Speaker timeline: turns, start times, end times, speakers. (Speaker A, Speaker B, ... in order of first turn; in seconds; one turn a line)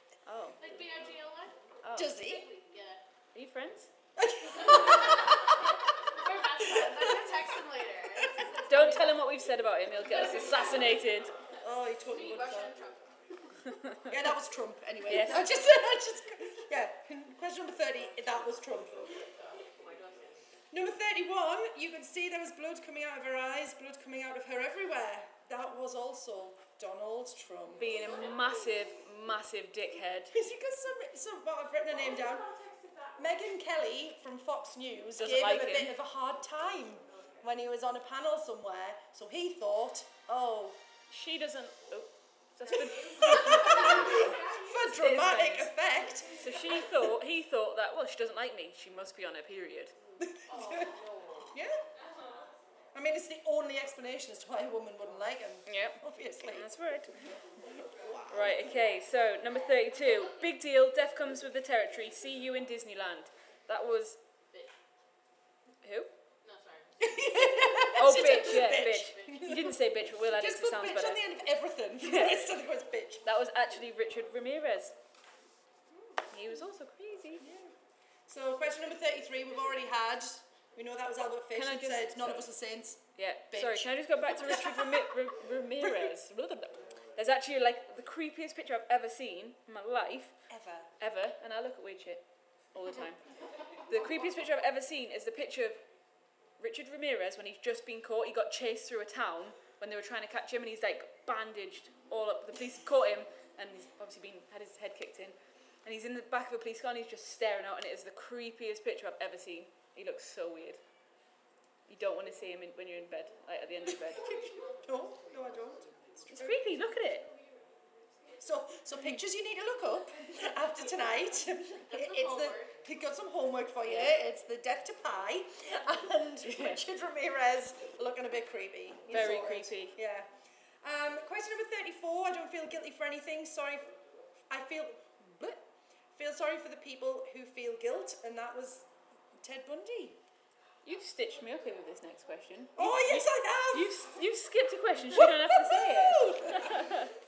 Speaker A: 0.3-0.6
Speaker B: 0.6-3.0
Speaker A: 1.8-2.2
Speaker C: 1.9-2.5
Speaker A: 3.3-3.9
Speaker C: 4.2-5.5
Speaker B: 4.7-5.3
Speaker B: 6.1-9.2
Speaker C: 6.6-7.3
Speaker A: 8.7-11.3
Speaker B: 10.1-10.9
Speaker C: 11.6-12.7
Speaker B: 12.0-13.1
Speaker A: 13.7-14.0
Speaker C: 14.1-19.2
Speaker A: 15.1-15.6
Speaker B: 19.2-20.4
Speaker C: 20.7-27.9
Speaker A: 27.8-30.3
Speaker B: 27.9-28.5
Speaker C: 30.3-32.5
Speaker C: 33.2-40.8
Speaker A: 35.2-36.0
Speaker A: 41.1-45.7
Speaker C: 42.7-46.5
Speaker B: 43.0-44.7
Speaker A: 46.3-50.0
Speaker C: 50.2-50.9
Speaker B: 50.5-51.5
Speaker C: 51.5-51.8
Speaker B: 52.2-52.5
Speaker C: 52.9-56.7
Speaker A: 55.7-57.2
Speaker C: 57.8-58.7
Speaker A: 58.3-64.2
Speaker A: 65.8-66.1
Speaker B: 66.4-67.0
Speaker C: 67.0-73.2
Speaker A: 68.0-71.3
Speaker B: 68.9-69.6
Speaker A: 72.0-72.5
Speaker A: 73.2-75.0
Speaker A: 76.3-77.4
Speaker C: 77.4-77.7
Speaker C: 78.3-85.0
Speaker A: 81.5-82.5
Speaker A: 83.2-90.4
Speaker C: 85.8-86.1
Speaker C: 90.5-90.9
Speaker A: 91.0-93.2
Speaker A: 93.9-95.8
Speaker A: 96.6-110.8
Speaker A: 111.9-114.3
Speaker C: 114.2-116.6
Speaker A: 116.3-117.3
Speaker C: 118.4-130.3
Speaker B: 121.9-122.8
Speaker A: 123.8-124.2
Speaker A: 126.4-126.8
Speaker A: 129.1-130.0
Speaker C: 130.8-133.9
Speaker C: 134.5-135.6
Speaker C: 136.2-140.2
Speaker A: 140.8-147.1
Speaker C: 142.8-143.9
Speaker C: 145.2-146.9